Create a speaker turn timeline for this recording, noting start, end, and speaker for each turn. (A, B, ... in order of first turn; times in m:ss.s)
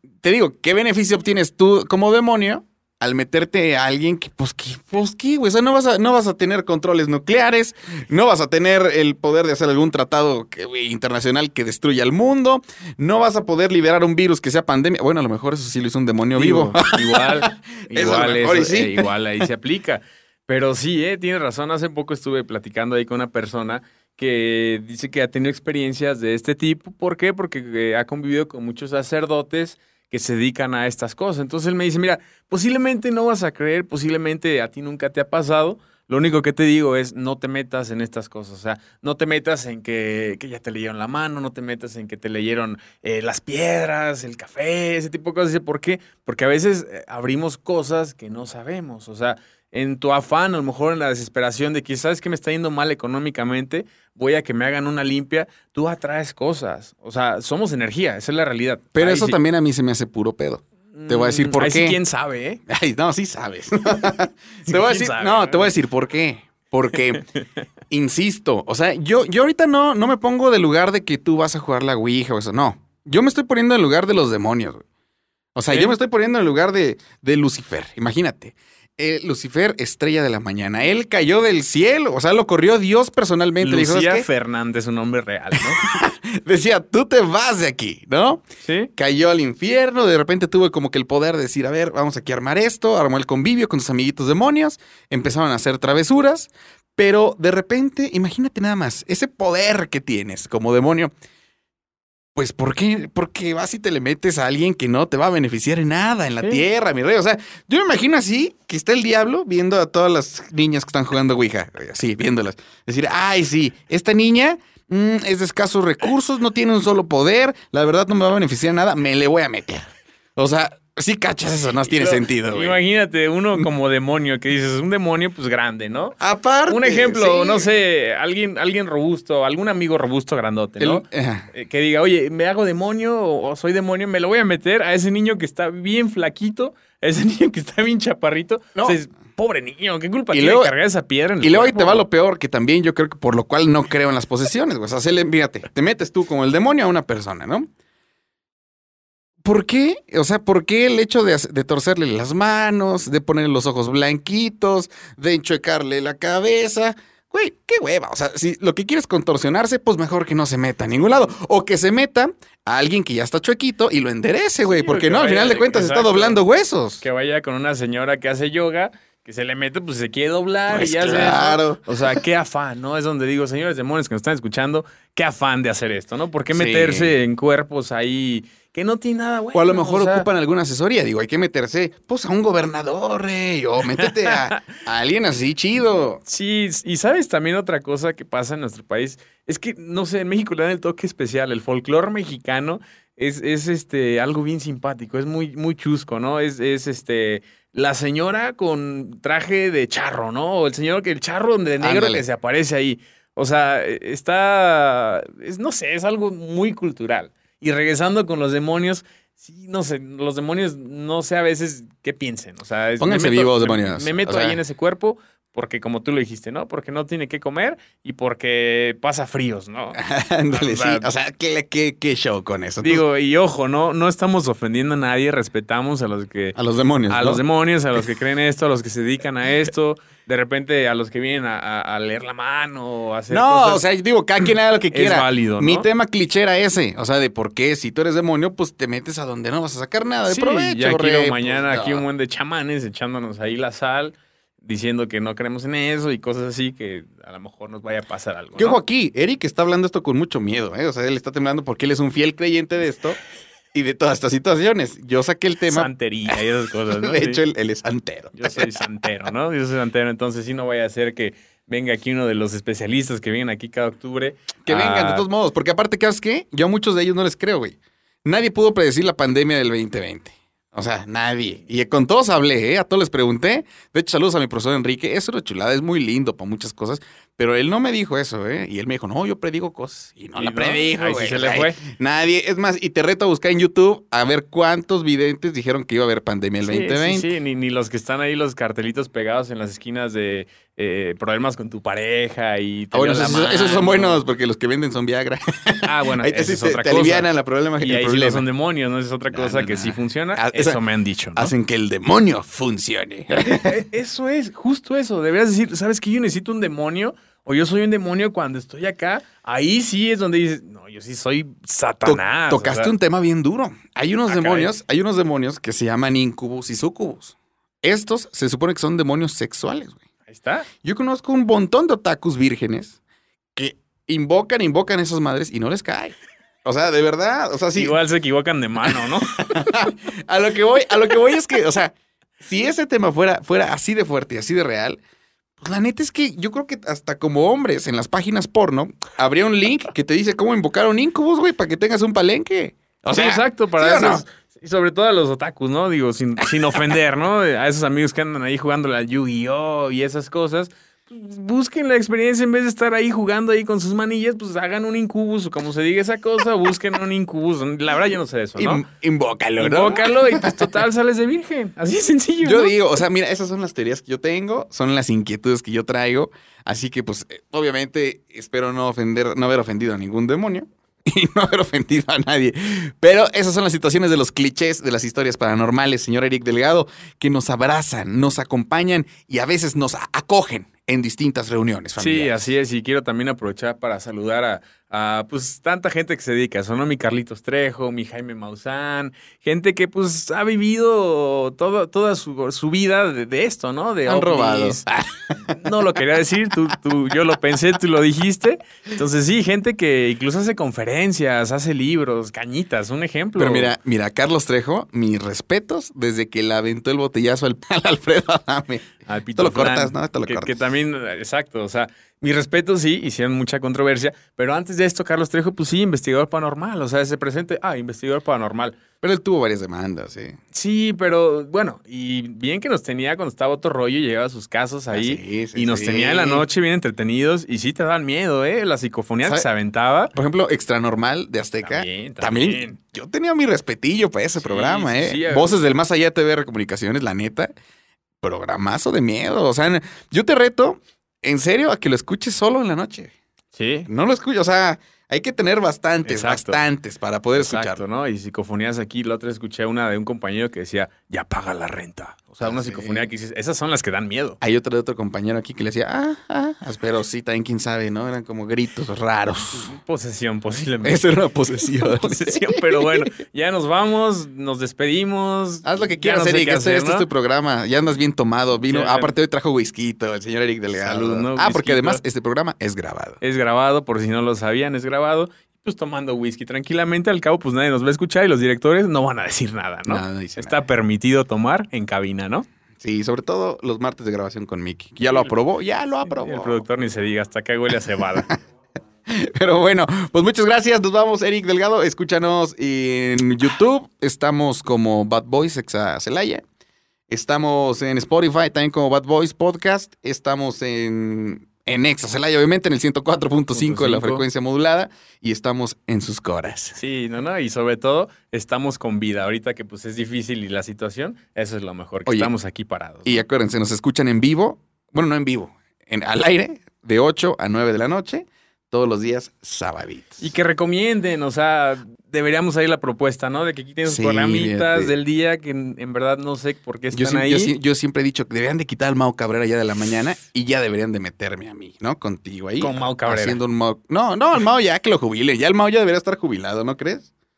0:00.2-0:19.1 A
0:16.4-0:59.4 B
0:58.9-1:02.0 A
1:00.9-1:02.6 B
1:02.7-1:07.2 A
1:04.7-1:05.7 B
1:07.1-1:07.4 B
1:07.9-1:14.8 A
1:15.6-1:24.3 A
1:23.6-1:25.8 B
1:25.6-1:28.4 A
1:28.6-1:28.9 B
1:29.0-1:41.1 A
1:42.4-2:02.8 A
2:01.9-2:22.0 B
2:06.2-2:07.7 A
2:10.8-2:11.5 A
2:20.3-2:20.7 A
2:21.4-2:27.7 A
2:29.4-2:47.0 A
2:44.6-2:46.4 B
2:47.0-3:00.3 B
2:50.7-2:52.2 A
2:56.5-2:57.1 A
2:59.5-3:06.2 A
3:04.0-3:04.6 B
3:06.3-3:40.0 B
3:21.8-3:22.2 A
3:33.0-3:34.6 A
3:39.9-3:43.0 A
3:40.5-3:41.1 B
3:42.8-3:46.6 B
3:46.6-3:47.4 A
3:47.1-3:53.8 B
3:53.3-4:02.0 A
3:54.9-3:55.9 B
4:00.3-4:08.8 B
4:08.6-4:13.2 A
4:13.7-4:18.8 A
4:15.7-4:17.4 B
4:18.4-4:25.3 B
4:24.7-4:47.3 A
4:40.4-4:41.8 B
4:46.6-4:54.3 B
4:52.9-4:58.4 A
4:55.8-4:57.3 B
4:57.8-5:01.5 B
4:59.3-5:00.8 A
5:01.4-5:03.7 A
5:03.4-5:12.9 B
5:12.1-5:20.0 A
5:14.3-5:14.7 B
5:20.3-5:20.7 B
5:20.8-5:23.0 A
5:23.6-5:28.0 A
5:27.8-5:29.9 B
5:29.4-5:35.0 A
5:35.6-5:44.2 A
5:43.1-5:58.8 B
5:58.6-6:00.8 A
5:59.6-6:02.7 B
6:02.4-6:22.5 A
6:22.0-6:43.7 B
6:34.1-6:35.6 A
6:43.4-6:50.6 A
6:49.1-6:58.8 B
6:59.0-7:00.4 A
7:00.5-7:10.1 B
7:04.9-7:06.4 A
7:10.1-7:17.5 A
7:11.6-7:12.8 B
7:14.4-7:15.5 B
7:18.2-7:23.1 A
7:23.5-7:23.9 B
7:23.9-7:27.8 A
7:26.0-7:26.6 B
7:27.4-7:34.4 B
7:32.4-7:33.1 A
7:34.4-7:39.7 A
7:39.6-7:41.0 B
7:40.8-7:43.0 A
7:41.8-7:47.1 B
7:45.6-7:53.2 A
7:48.6-7:49.2 B
7:50.7-7:52.0 B
7:53.2-8:02.5 B
7:59.9-8:00.6 A
8:02.8-8:06.6 A
8:06.1-8:08.3 B
8:09.1-8:16.4 A
8:17.1-8:26.8 A
8:23.5-8:24.2 B
8:26.8-8:33.2 B
8:33.0-8:40.2 A
8:40.2-8:47.5 B
8:43.8-8:44.9 A
8:46.9-8:57.1 A
8:52.6-8:53.4 B